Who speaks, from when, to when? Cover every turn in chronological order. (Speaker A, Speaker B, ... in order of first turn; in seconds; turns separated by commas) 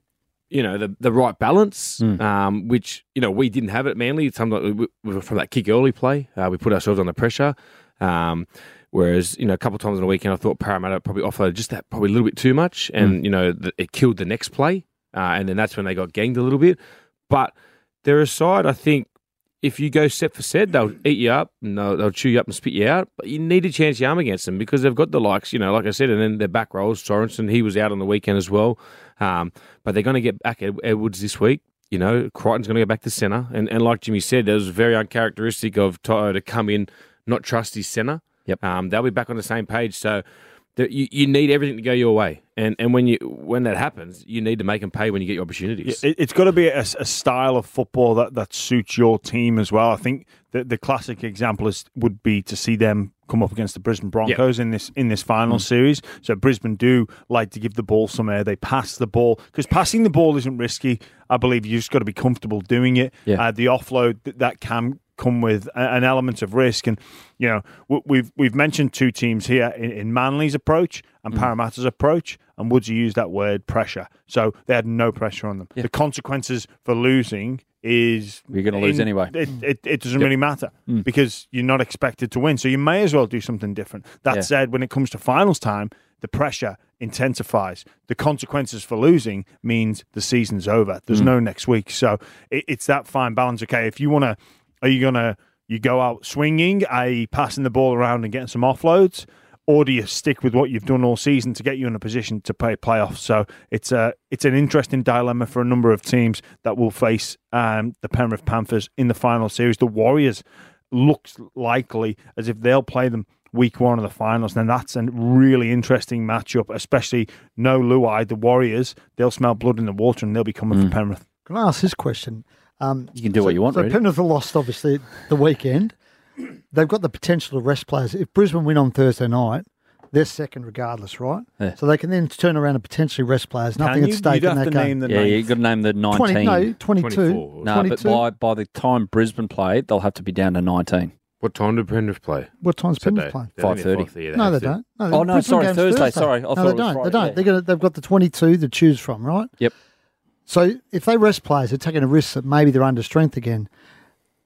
Speaker A: 0.5-16.8, Speaker A: 18.0-19.1, Speaker A: 19.6-40.2, Speaker A: 40.8-46.0, Speaker B: 45.9-121.2, Speaker C: 78.5-79.4, Speaker D: 121.5-126.0, Speaker C: 123.2-124.0, Speaker D: 126.7-135.0, Speaker B: 133.8-135.5, Speaker C: 135.1-136.7, Speaker D: 136.1-138.3, Speaker A: 137.0-137.9, Speaker C: 137.6-141.1, Speaker A: 141.4-144.7, Speaker D: 142.6-143.5, Speaker C: 143.6-144.1, Speaker D: 144.3-149.5, Speaker C: 145.1-147.4, Speaker D: 150.5-153.7